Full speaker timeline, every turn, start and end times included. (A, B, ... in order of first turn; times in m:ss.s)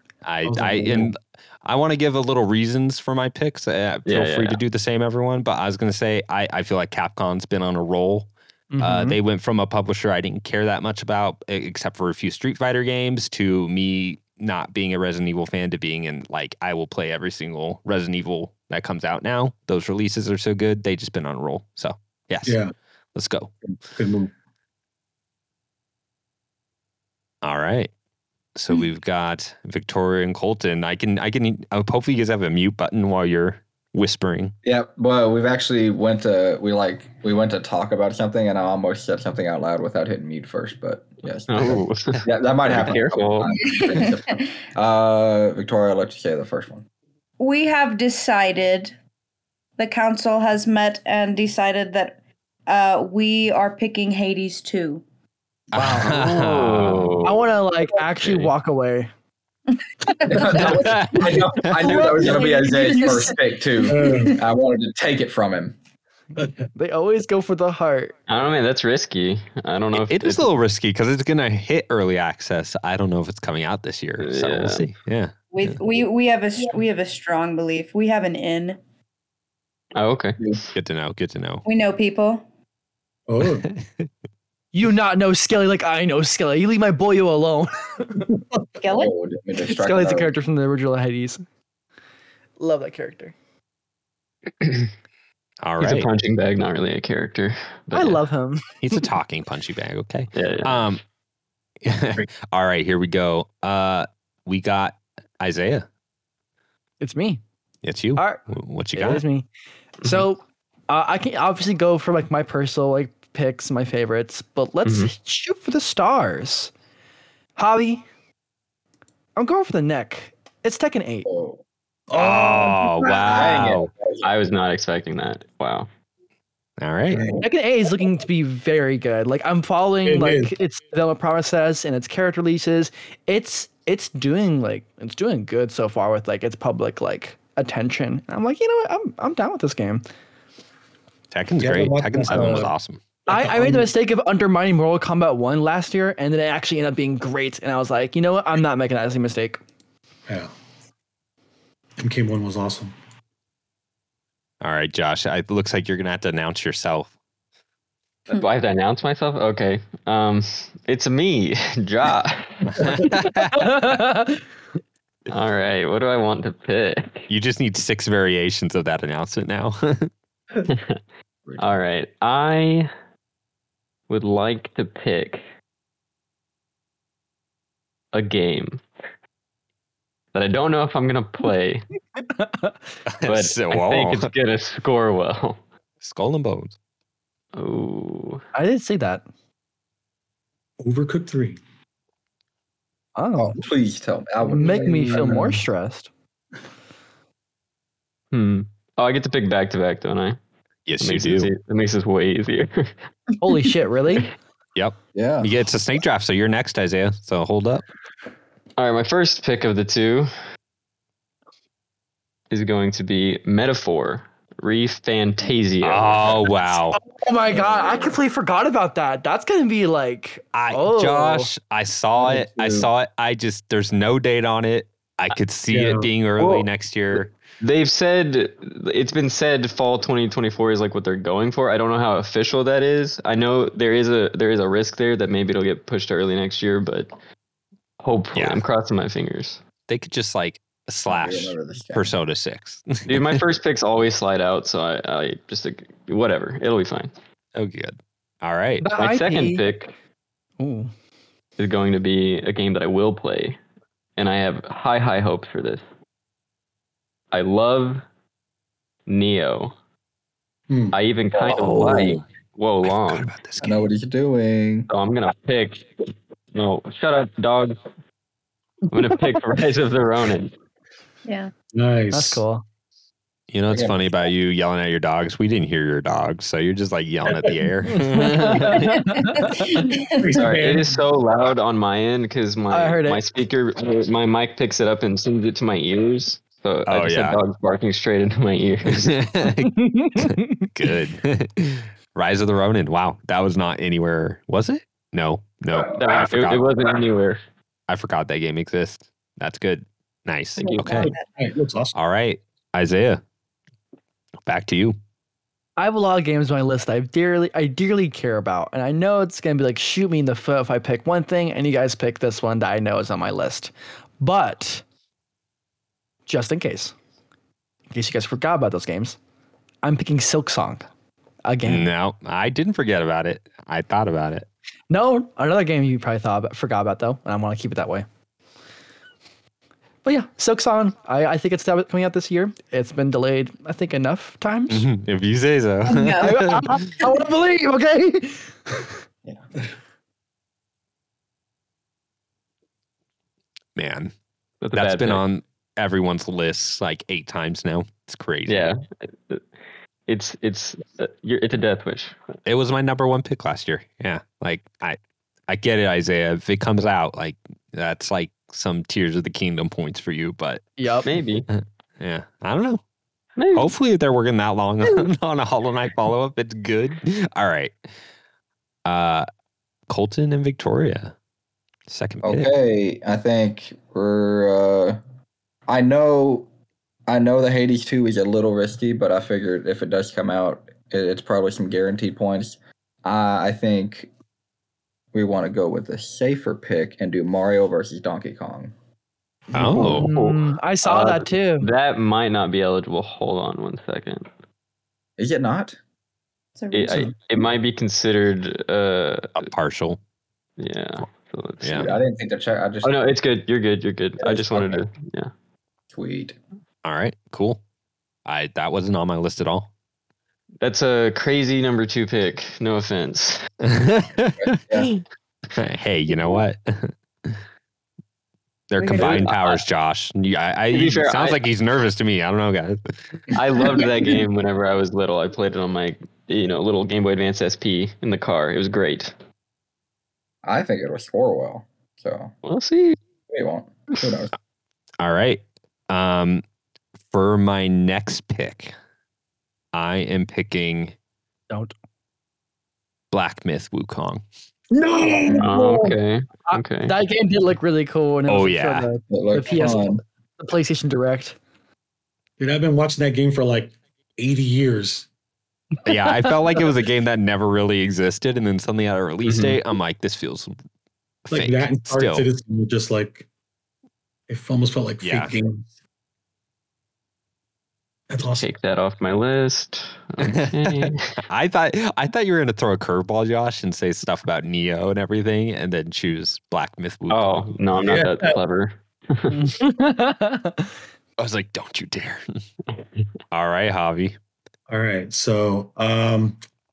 0:00.2-0:22.6 A
0:00.4-0:01.1 B
0:04.1-0:04.6 C
0:08.7-0:09.2 D
0:22.4-0:22.7 B
0:23.2-0:23.5 A
0:24.0-0:24.3 B
0:27.4-0:27.9 A
0:28.6-0:34.6 A
0:34.6-0:46.9 E
0:41.5-0:43.7 C
0:43.6-0:44.4 F
0:47.4-0:49.0 F
0:49.8-0:55.0 F
0:55.7-0:57.2 A
0:55.7-0:56.2 D
0:56.0-0:57.5 C
0:57.2-0:59.1 D
1:00.1-1:01.1 F
1:00.3-1:05.8 E
1:00.3-1:00.8 D
1:00.7-1:02.0 A
1:01.6-1:03.4 D
1:01.9-1:03.3 F
1:03.9-1:04.4 B
1:04.0-1:04.3 F
1:06.4-1:06.6 B
1:06.7-1:08.1 D
1:08.3-1:10.5 C
1:09.9-1:15.8 A
1:14.2-1:14.9 C
1:15.5-1:18.8 F
1:20.0-1:20.7 C
1:20.8-1:21.6 A
1:21.6-1:22.5 F
1:23.3-1:23.7 B
1:23.4-1:24.1 A
1:24.7-1:28.2 D
1:28.8-1:29.1 F
1:28.8-1:30.3 E
1:29.6-1:31.4 D
1:32.6-1:33.4 D
1:34.6-1:34.9 C
1:35.6-1:36.1 A
1:35.8-1:38.2 C
1:37.9-1:38.7 D
1:38.8-1:41.0 A
1:40.4-1:41.0 C
1:41.8-1:45.9 A
1:47.0-1:47.4 D
1:47.8-1:49.2 A
1:48.2-1:48.4 D
1:48.9-1:49.5 D
1:50.0-1:56.7 D
1:54.8-1:55.1 C
1:57.6-1:58.0 D
1:59.4-2:01.3 D
2:01.3-2:01.6 E
2:02.1-2:03.1 B
2:02.1-2:03.9 A
2:03.1-2:04.3 E
2:04.2-2:05.9 C
2:06.8-2:07.3 A
2:07.1-2:07.4 B
2:07.4-2:20.0 D
2:10.0-2:10.5 B
2:21.3-2:23.0 A
2:21.6-2:22.7 B
2:23.3-2:29.6 D
2:23.3-2:23.9 B
2:30.3-2:30.5 B
2:32.0-2:32.9 B
2:34.6-2:37.1 A
2:38.3-2:43.0 C
2:42.8-2:43.7 A
2:43.4-2:44.4 D
2:45.3-2:47.3 C
2:47.3-2:50.1 A
2:50.7-2:51.0 C
2:51.6-2:52.9 C
2:54.1-2:55.4 C
2:58.1-2:58.8 C
3:00.3-3:01.9 C
3:02.4-3:02.7 D
3:03.1-3:04.3 A
3:03.3-3:05.6 C
3:06.0-3:06.8 A
3:07.6-3:08.4 C
3:08.5-3:09.2 D
3:10.8-3:11.6 B
3:13.2-3:13.6 D
3:13.4-3:15.5 E
3:14.4-3:16.1 D
3:14.8-3:15.6 B
3:18.3-3:20.4 C
3:20.9-3:21.5 A
3:21.0-3:22.9 C
3:23.4-3:24.3 D
3:24.8-3:27.8 A
3:25.2-3:25.5 E
3:28.8-3:30.3 C
3:32.5-3:36.5 C
3:35.8-3:37.0 A
3:36.9-3:41.5 D
3:37.6-3:38.1 E
3:40.5-3:47.3 A
3:42.2-3:42.9 E
3:45.7-3:46.1 B
3:47.6-3:57.1 C
3:58.0-3:59.6 C
3:58.4-3:58.6 A
3:59.9-4:03.4 A
4:01.1-4:02.1 E
4:03.1-4:07.1 C
4:07.6-4:08.9 A
4:08.8-4:09.6 D
4:09.0-4:09.9 C
4:10.6-4:10.9 D
4:11.6-4:13.6 C
4:14.2-4:15.8 C
4:17.3-4:18.0 C
4:19.1-4:19.7 C
4:20.7-4:21.0 B
4:20.9-4:23.3 C
4:21.5-4:22.2 E
4:21.5-4:22.2 A
4:22.8-4:23.9 A
4:23.6-4:24.9 E
4:24.9-4:27.8 C
4:28.9-4:30.5 C
4:31.7-4:32.4 B
4:32.1-4:32.6 D
4:33.5-4:39.0 A
4:33.7-4:34.1 E
4:37.9-4:39.8 D
4:39.1-4:40.2 F
4:40.2-4:41.0 B
4:40.4-4:49.2 C
4:42.7-4:43.2 D
4:46.9-4:47.4 A
4:48.9-4:56.7 A
4:49.6-4:50.7 D
4:56.0-4:57.4 C
4:57.9-5:01.1 A
5:00.6-5:01.3 F
5:00.6-5:00.9 C
5:00.9-5:02.0 B
5:02.0-5:03.2 A
5:04.4-5:05.0 A
5:05.8-5:14.8 D
5:16.3-5:17.0 D
5:17.9-5:19.2 D
5:19.8-5:20.9 D
5:21.4-5:21.9 D
5:21.7-5:24.5 A
5:24.9-5:28.1 D
5:30.0-5:34.9 D
5:34.7-5:36.8 A
5:35.9-5:36.4 F
5:36.2-5:38.9 D
5:43.8-5:44.1 A
5:44.6-5:45.2 C
5:44.7-5:48.7 A
5:48.5-5:49.4 C
5:50.1-5:52.4 C
5:52.4-6:00.7 A
6:00.8-6:01.1 D
6:01.0-6:01.5 C
6:01.5-6:02.8 A
6:03.4-6:03.7 C
6:03.5-6:07.8 A
6:08.8-6:09.3 A
6:09.9-6:11.1 A
6:11.9-6:12.5 A
6:12.2-6:15.0 E
6:15.7-6:16.5 E
6:17.1-6:24.1 E
6:25.1-6:28.7 E
6:29.5-6:30.1 A
6:29.7-6:31.7 D
6:29.9-6:34.3 C
6:35.2-6:35.8 E
6:36.6-6:37.1 F
6:36.7-6:39.4 C
6:39.4-6:40.0 A
6:40.6-6:42.0 C
6:41.6-6:41.9 A
6:41.7-6:43.1 E
6:42.8-6:45.3 C
6:44.2-6:44.8 E
6:45.9-6:46.4 E
6:46.8-6:47.6 A
6:48.3-6:49.7 A
6:50.6-6:53.4 C
6:53.6-6:54.9 A
6:54.4-6:54.9 E
6:55.6-6:57.4 A
6:58.7-7:03.6 A
6:58.8-6:59.3 F
6:58.9-6:59.6 C
7:00.7-7:01.5 C
7:03.3-7:09.1 C
7:10.4-7:12.3 E
7:12.4-7:13.0 C
7:13.3-7:14.3 E
7:15.0-7:16.4 A
7:17.1-7:18.7 A
7:19.7-7:21.0 A
7:23.1-7:24.2 A
7:24.7-7:26.0 B
7:25.4-7:27.0 C
7:26.5-7:31.4 D
7:28.3-7:28.9 A
7:29.1-7:30.0 E
7:32.4-7:35.1 B
7:35.8-7:40.6 A
7:39.2-7:39.6 C
7:41.3-7:42.3 A
7:41.3-7:43.3 B
7:44.3-7:45.7 B
7:45.0-7:45.3 A
7:48.1-7:48.5 B
7:48.3-7:51.2 C
7:50.2-7:57.6 A
7:57.1-7:59.4 C
7:57.8-7:58.4 B
7:59.3-8:00.7 D
8:01.2-8:02.2 A
8:03.3-8:04.2 A
8:04.7-8:06.4 B